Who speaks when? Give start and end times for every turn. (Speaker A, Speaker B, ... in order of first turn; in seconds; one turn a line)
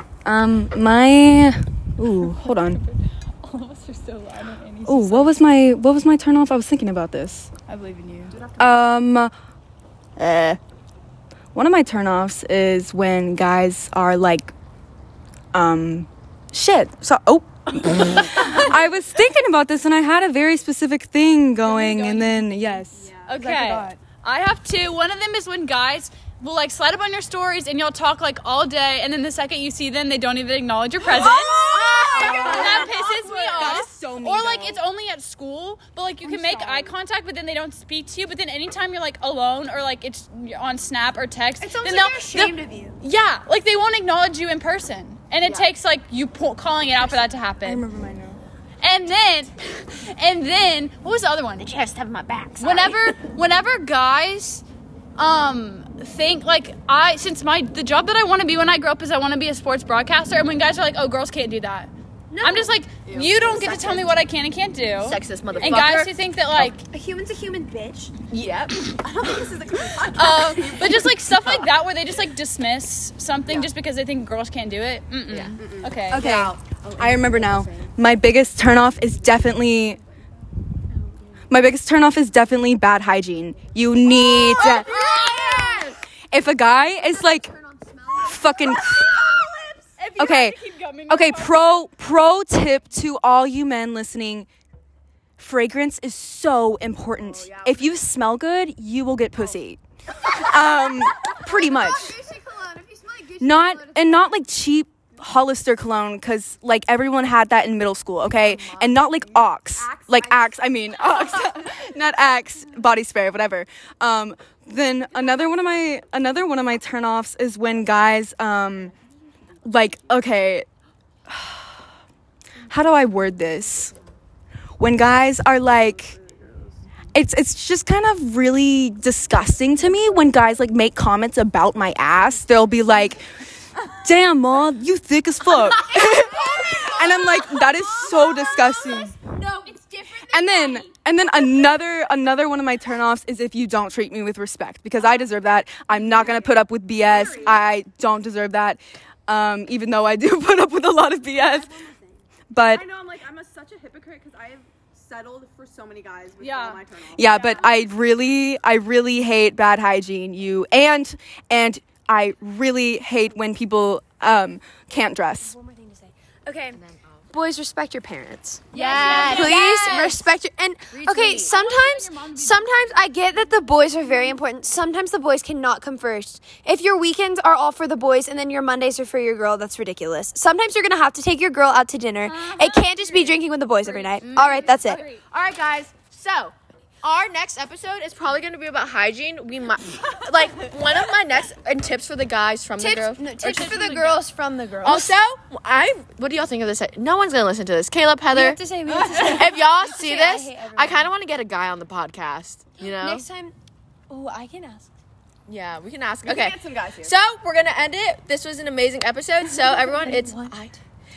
Speaker A: 0.2-2.8
Speaker B: 2.2-5.4
Speaker A: 4.9-7.5
Speaker B: 7.7-8.4
Speaker A: 8.5-9.3
Speaker A: 10.2-10.6
Speaker A: 11.6-14.5
Speaker A: 15.5-24.0
Speaker B: 18.3-18.6
Speaker B: 21.6-47.9
Speaker C: 31.0-33.9
Speaker A: 32.2-34.8
Speaker D: 32.2-32.6
Speaker D: 36.2-36.9
Speaker D: 41.6-43.0
Speaker A: 47.6-48.4
Speaker B: 48.8-54.6
Speaker E: 52.1-53.1
Speaker B: 55.2-66.8
Speaker D: 62.3-62.8
Speaker C: 63.0-63.6
Speaker E: 63.5-64.2
Speaker E: 65.0-66.1
Speaker C: 65.6-66.0
Speaker D: 66.8-68.1
Speaker E: 68.3-68.8
Speaker C: 68.3-71.1
Speaker B: 70.1-76.2
Speaker E: 75.3-75.6
Speaker C: 75.6-77.9
Speaker A: 76.1-80.0
Speaker A: 81.5-84.9
Speaker E: 84.5-86.0
Speaker B: 84.8-85.5
Speaker A: 86.3-87.5
Speaker D: 86.9-90.1
Speaker A: 88.2-89.2
Speaker B: 90.0-91.9
Speaker A: 90.2-94.5
Speaker A: 95.4-102.2
Speaker C: 97.2-98.0
Speaker D: 100.7-104.4
Speaker A: 103.4-118.9
Speaker D: 108.3-111.6
Speaker A: 119.7-120.7
Speaker A: 121.3-121.8
Speaker A: 122.7-124.0
Speaker A: 124.8-126.2
Speaker A: 127.1-133.2
Speaker A: 134.0-139.2
Speaker D: 135.8-141.7
Speaker A: 140.3-151.7
Speaker C: 146.0-147.6
Speaker C: 151.4-157.8
Speaker A: 152.5-152.8
Speaker B: 156.4-157.7
Speaker A: 157.2-165.6
Speaker D: 165.3-166.8
Speaker E: 166.7-167.3
Speaker D: 167.3-185.1
Speaker B: 168.7-170.1
Speaker E: 168.8-170.3
Speaker E: 170.9-171.5
Speaker B: 171.2-174.2
Speaker B: 182.2-185.2
Speaker E: 184.2-193.4
Speaker D: 192.8-195.2
Speaker B: 193.4-194.2
Speaker E: 194.8-203.3
Speaker D: 198.3-201.1
Speaker D: 202.8-203.6
Speaker D: 204.1-204.9
Speaker E: 205.5-210.5
Speaker C: 206.2-207.1
Speaker D: 209.5-210.8